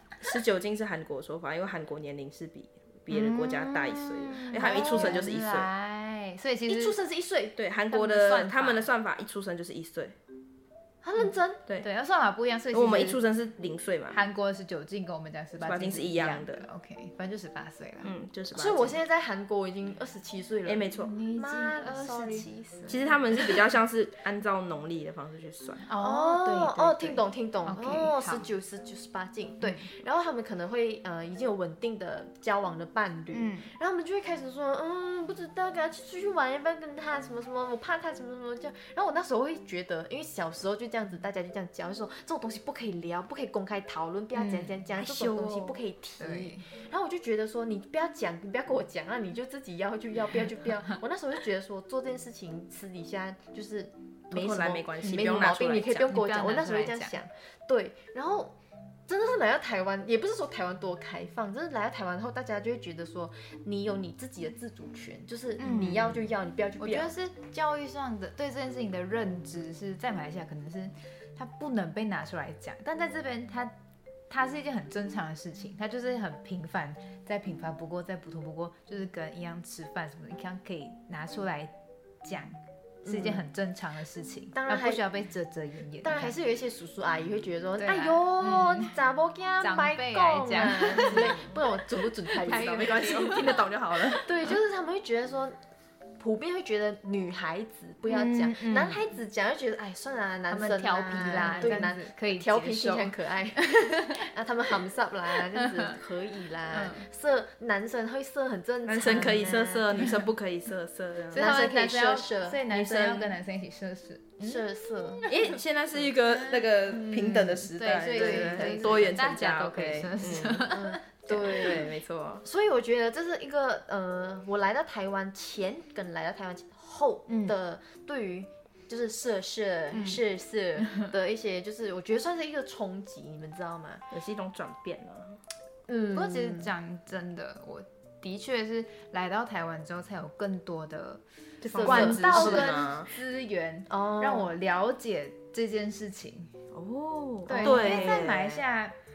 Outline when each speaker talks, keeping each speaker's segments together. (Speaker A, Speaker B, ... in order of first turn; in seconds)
Speaker A: 0.2-5.7, 7.6-10.2, 12.7-14.2, 15.6-16.7, 18.0-19.0, 20.7-21.1, 22.9-25.9, 45.2-45.7, 54.3-56.1, 91.2-91.6, 92.4-94.2, 108.8-111.5, 115.3-120.8, 121.4-122.5, 134.1-135.4, 141.6-143.1, 146.7-148.6
Speaker B: 3.1-5.3, 6.7-7.6, 11.0-11.6, 18.5-22.5, 26.0-58.6, 59.1-67.1, 83.0-83.5, 84.5-85.0, 86.0-93.3, 94.1-95.6, 96.2-110.0, 111.3-113.4, 114.4-115.2, 118.0-119.3, 120.2-121.9, 122.4-134.0, 135.9-136.7, 141.8-142.9, 143.9-144.5, 147.7-148.3
Speaker C: 4.5-7.0, 7.9-8.9, 11.8-13.2, 14.1-18.1, 21.0-23.5, 25.9-28.5, 29.6-29.9, 33.3-33.7, 44.3-46.6, 55.0-55.3, 56.1-57.2, 65.6-73.7, 74.3-86.4, 87.8-89.0, 89.6-91.4, 92.3-93.7, 98.1-99.0, 100.5-104.1, 105.5-106.0, 106.7-107.1, 111.3-115.6, 116.2-121.8, 127.3-127.6, 129.9-130.2, 130.8-131.1, 136.1-146.5, 147.5-148.9